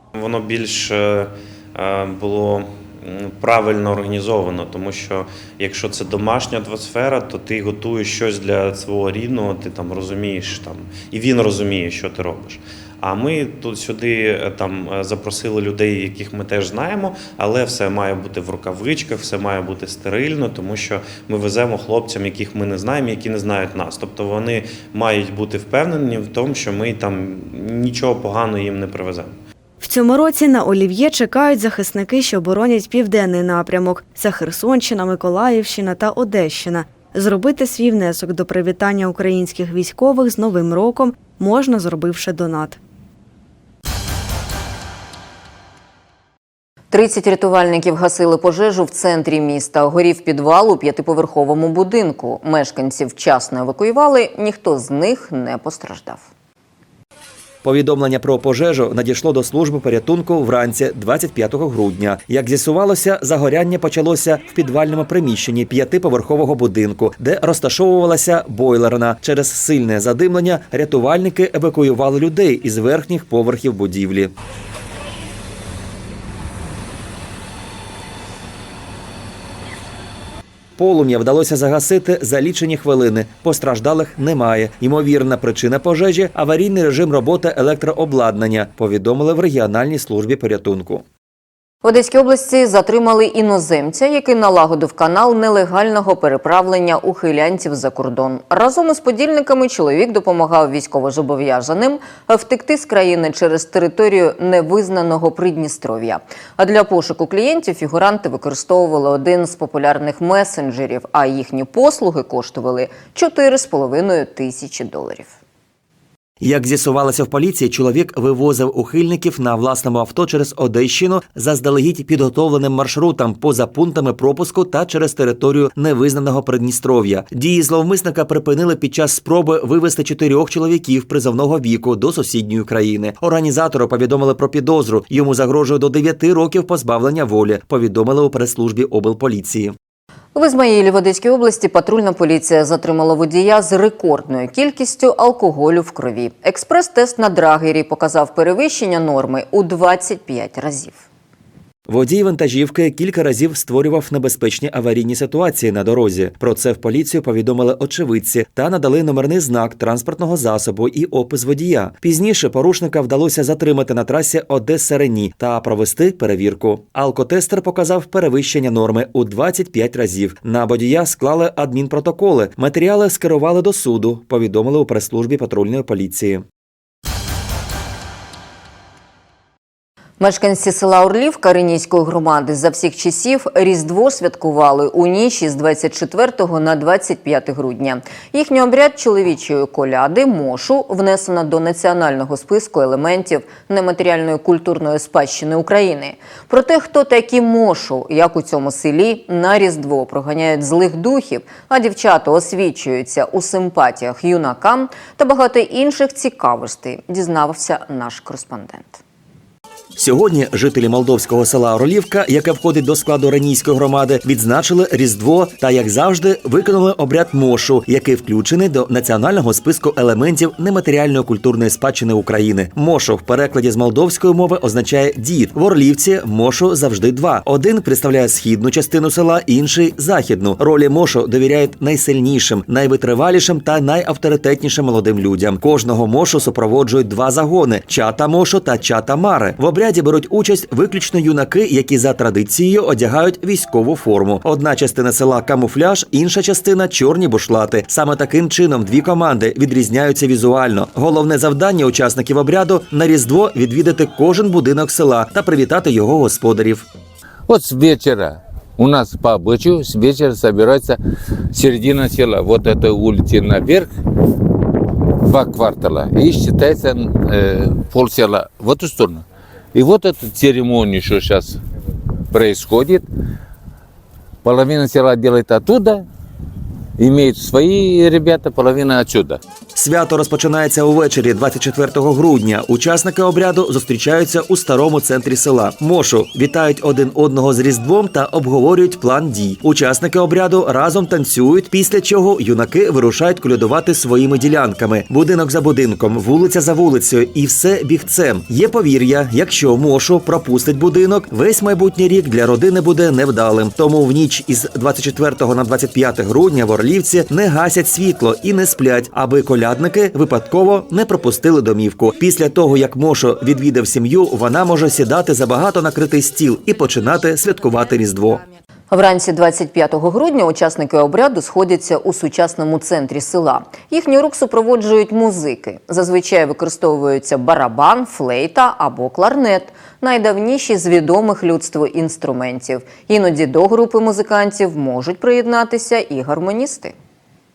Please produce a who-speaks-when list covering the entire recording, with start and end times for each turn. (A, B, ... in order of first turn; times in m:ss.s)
0:00.1-0:29.4 A
0:29.8-0:42.8 B
0:46.9-0:56.3 C
0:57.6-1:14.3 D
1:20.8-1:31.0 D
1:31.8-1:55.3 C
1:56.4-2:19.7 D
2:20.3-2:31.0 C
2:31.8-2:56.4 D
3:00.2-3:29.0 C
3:30.0-4:16.9 D
4:17.5-4:21.0 E
4:21.5-4:23.9 E
4:25.2-4:31.6 E
4:32.3-4:33.1 E
4:34.4-4:36.0 E
4:37.0-4:39.4 E
4:39.7-5:18.4 D
5:18.9-5:36.9 C